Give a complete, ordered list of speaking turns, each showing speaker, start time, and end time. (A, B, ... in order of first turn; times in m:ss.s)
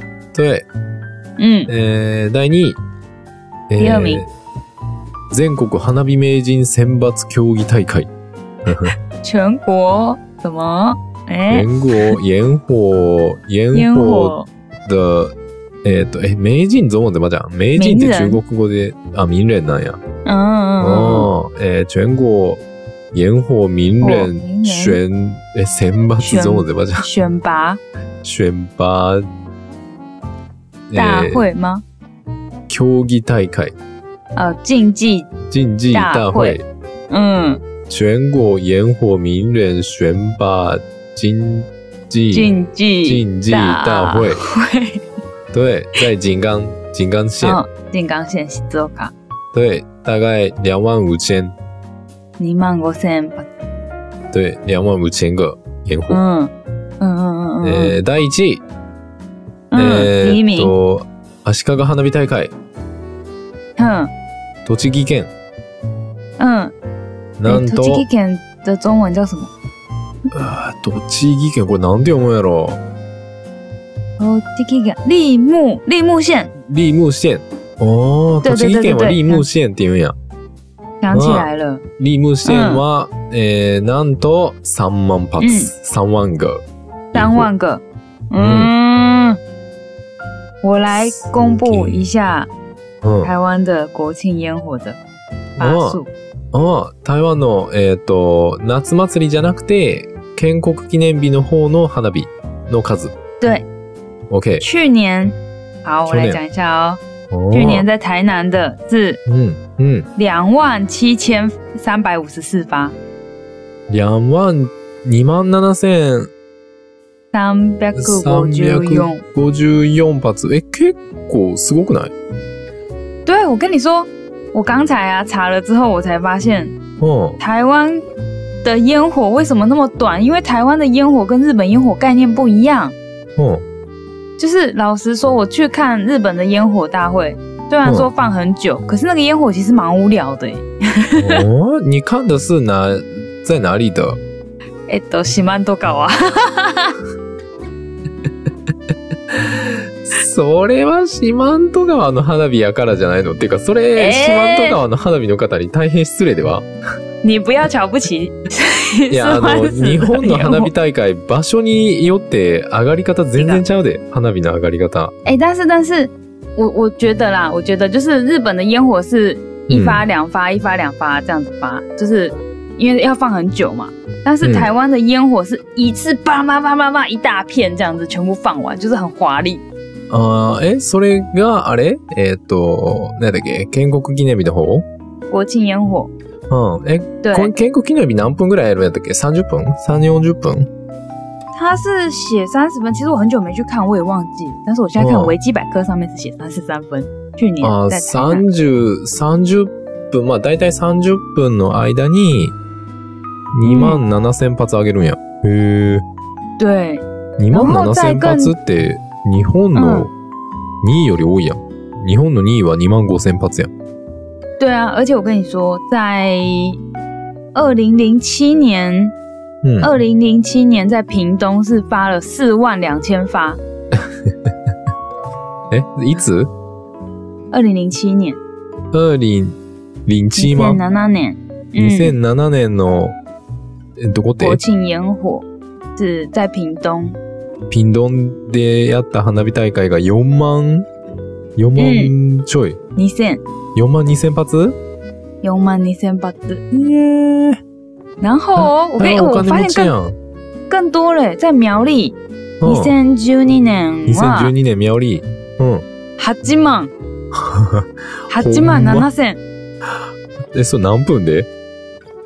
0:00.3-0:00.7 A
0:01.4-0:01.7 B
0:01.7-0:02.8 A
0:03.7-0:04.3 A
0:03.8-0:04.2 B
0:05.3-0:08.1 A
0:08.6-0:08.9 A
0:09.2-0:12.2 B
0:11.5-0:20.0 A
0:13.7-0:14.5 B
0:17.8-0:18.4 B
0:20.2-0:21.3 B
0:20.8-0:27.0 A
0:24.0-0:25.0 B
0:26.2-0:27.8 B
0:28.2-0:29.3 A
0:30.9-0:31.4 A
0:30.9-0:31.8 B
0:32.7-0:33.7 A
0:34.4-0:35.3 B
0:35.5-0:36.6 A
0:35.9-0:36.6 B
0:37.1-0:37.6 B
0:37.9-0:42.5 A
0:42.3-0:45.0 B
0:43.0-0:44.4 A
0:45.5-0:47.6 A
0:47.4-0:49.1 B
0:49.5-0:51.5 A
0:52.4-0:53.5 B
0:54.3-0:56.2 A
0:56.1-0:57.9 B
0:57.6-0:58.6 A
0:59.7-1:00.7 B
0:59.7-1:02.5 A
1:03.8-1:04.1 B
1:04.6-1:05.3 A
1:06.4-1:06.7 B
1:07.4-1:08.0 A
1:07.4-1:09.5 B
1:10.3-1:12.8 A
1:14.2-1:16.5 B
1:16.7-1:20.2 A
1:18.4-1:19.4 B
1:21.0-1:21.8 B
1:21.1-1:27.5 A
1:22.4-1:22.8 B
1:25.4-1:25.7 B
1:27.1-1:29.4 B
1:28.4-1:28.7 A
1:30.6-1:32.5 B
1:30.9-1:32.0 A
1:33.0-1:33.3 A
1:33.2-1:35.0 B
1:35.6-1:36.0 A
1:35.6-1:36.1 B
1:36.5-1:43.1 A
1:43.4-1:43.6 B
1:44.3-1:44.6 A
1:44.6-1:47.0 B
1:46.1-1:46.4 A
1:47.3-1:47.9 A
1:47.5-1:49.2 B
1:49.2-1:50.1 A
1:50.2-1:52.9 B
1:53.9-1:56.3 A
1:57.3-1:59.2 B
1:57.9-2:02.1 A
2:03.2-2:06.8 B
2:07.0-2:07.4 A
2:07.4-2:08.0 B
2:08.6-2:13.0 B
2:13.4-2:13.6 A
2:14.4-2:21.4 B
2:17.8-2:18.1 A
2:21.2-2:24.2 A
2:24.9-2:27.0 B
2:29.3-2:36.7 A
2:34.0-2:34.8 B
2:37.2-2:40.7 B
2:39.1-2:45.1 A
2:43.4-2:43.6 B
2:45.2-2:59.6 B
2:49.7-2:50.0 A
2:54.4-2:54.7 A
3:00.1-3:04.8 A
3:05.3-3:06.1 B
3:06.5-3:10.7 A
3:07.2-3:07.5 B
3:11.5-3:18.4 B
3:15.0-3:15.4 A
3:17.6-3:22.6 A
3:23.5-3:26.0 A
3:23.6-3:24.0 B
3:26.6-3:28.5 B
3:27.4-3:30.1 A
3:29.7-3:30.1 B
3:30.8-3:33.7 A
3:34.6-3:36.8 B
3:37.5-3:39.1 B
3:39.6-3:39.9 A
3:39.8-3:43.6 B
3:43.9-3:44.5 A
3:45.7-3:46.5 A
3:47.5-3:48.4 B
3:48.9-3:50.8 A
3:50.4-3:52.2 B
3:51.8-3:53.2 A
3:54.0-3:54.6 A
3:54.4-3:57.2 B
3:57.7-4:00.8 A
4:01.6-4:02.8 A
4:01.8-4:02.1 B
4:03.0-4:03.4 B
4:03.7-4:04.8 A
4:05.4-4:07.5 B
4:08.2-4:09.9 B
4:08.6-4:10.2 A
4:10.7-4:14.5 B
4:12.6-4:12.9 A
4:14.1-4:15.8 A
4:16.2-4:16.9 B
4:17.3-4:19.1 A
4:18.3-4:19.4 B
4:20.5-4:21.5 A